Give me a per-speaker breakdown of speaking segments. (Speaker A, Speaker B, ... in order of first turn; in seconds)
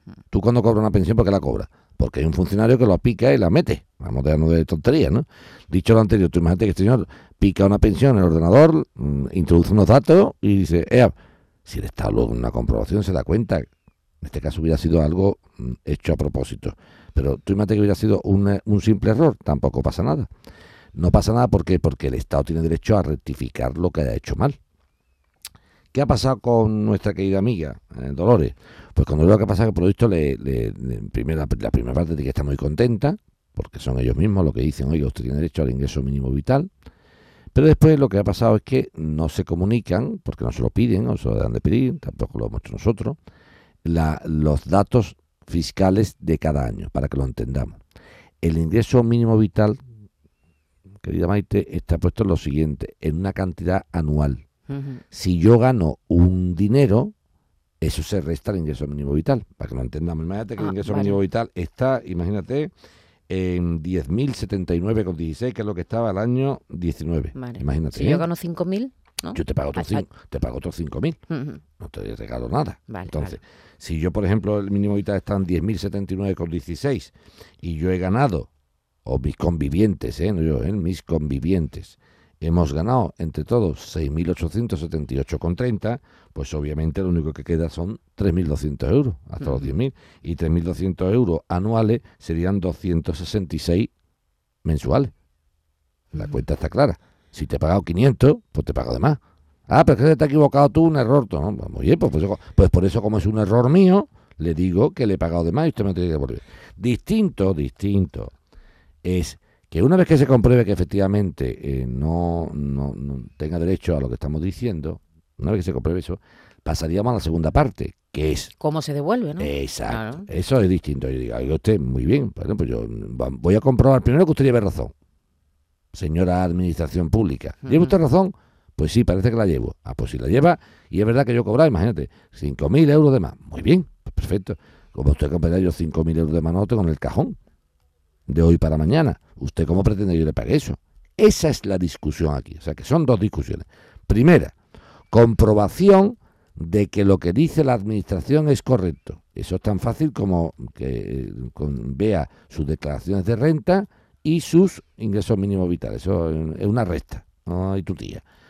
Speaker A: 0.3-11.1, 11.7-13.7, 14.2-20.3, 20.9-24.6, 25.9-36.7, 37.5-43.2, 43.8-47.8, 48.4-49.8, 51.0-54.4, 55.1-57.1, 57.8-62.7, 63.3-68.3, 69.3-71.2, 71.8-78.5, 79.1-93.9, 94.6-95.1, 96.1-108.3, 109.0-118.5, 119.4-124.9, 125.9-137.4, 138.3-144.5, 145.1-158.2
Speaker B: 54.7-55.0, 60.6-61.2, 67.3-70.1, 71.3-71.6, 72.9-73.4, 89.4-89.8, 96.1-96.4, 118.6-120.3, 127.6-128.0